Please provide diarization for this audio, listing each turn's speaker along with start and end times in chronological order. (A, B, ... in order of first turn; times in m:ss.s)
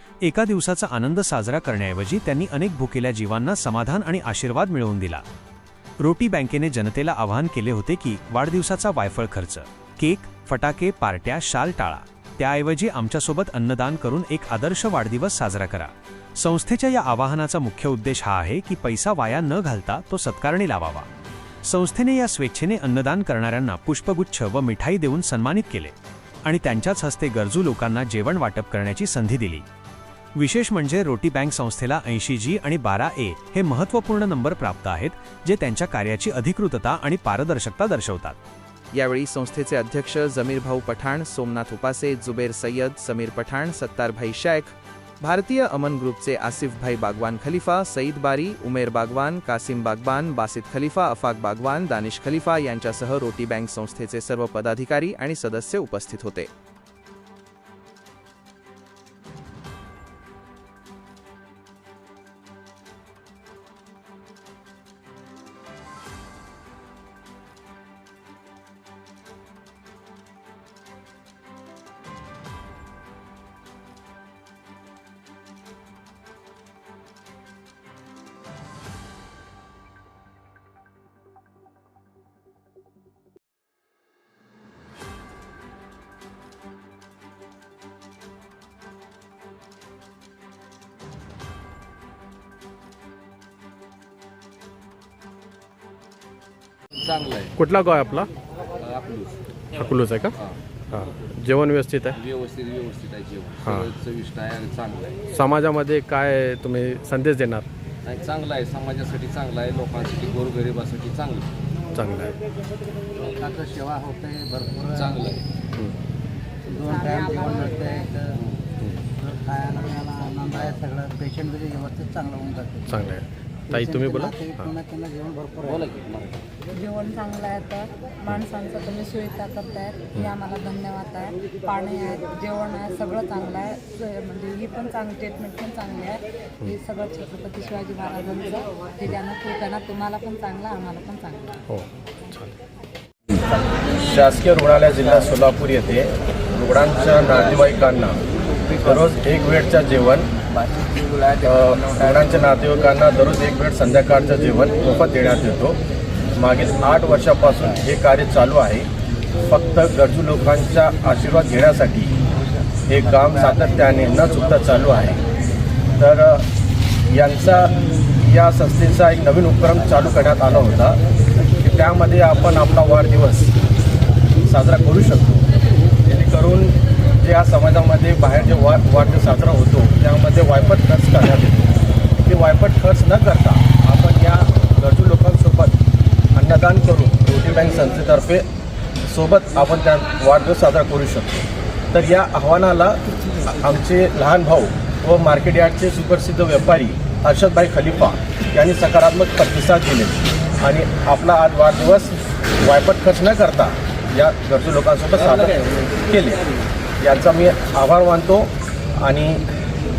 0:00.2-0:05.2 A
0:06.0-0:21.1 A
0:21.6-0:25.9 A
0:26.4-0:29.6 A
0:30.4-0:38.4 A
0:38.9-0:56.5 B
1:37.0-1:37.5 C
1:37.6-1:38.3 D
1:38.8-1:39.4 C
1:39.8-1:40.3 D
1:40.9-1:42.2 D
1:42.1-1:45.2 C
1:43.6-1:43.9 D
1:45.3-1:47.7 D
1:48.0-1:51.5 C
1:51.9-1:52.3 D
1:53.3-1:55.2 E
1:54.9-1:55.4 C
1:56.7-1:57.9 E
1:56.8-1:58.1 F
1:59.2-2:02.8 E
2:02.9-2:04.7 D
2:03.8-2:05.8 E
2:05.8-2:06.3 C
2:06.7-2:21.5 F
2:21.7-2:22.5 D
2:24.0-2:28.2 G
2:28.8-2:30.3 G
2:31.4-2:35.8 G
2:36.4-2:38.9 G
2:39.5-2:42.1 G
2:42.9-2:45.2 G
2:46.0-2:46.4 G
2:47.1-2:51.0 G
2:51.6-2:53.5 G
2:54.4-2:55.4 G
2:56.0-3:01.7 G
3:02.2-3:05.8 G
3:06.3-3:08.4 G
3:09.1-3:26.4 G
3:27.0-3:29.4 G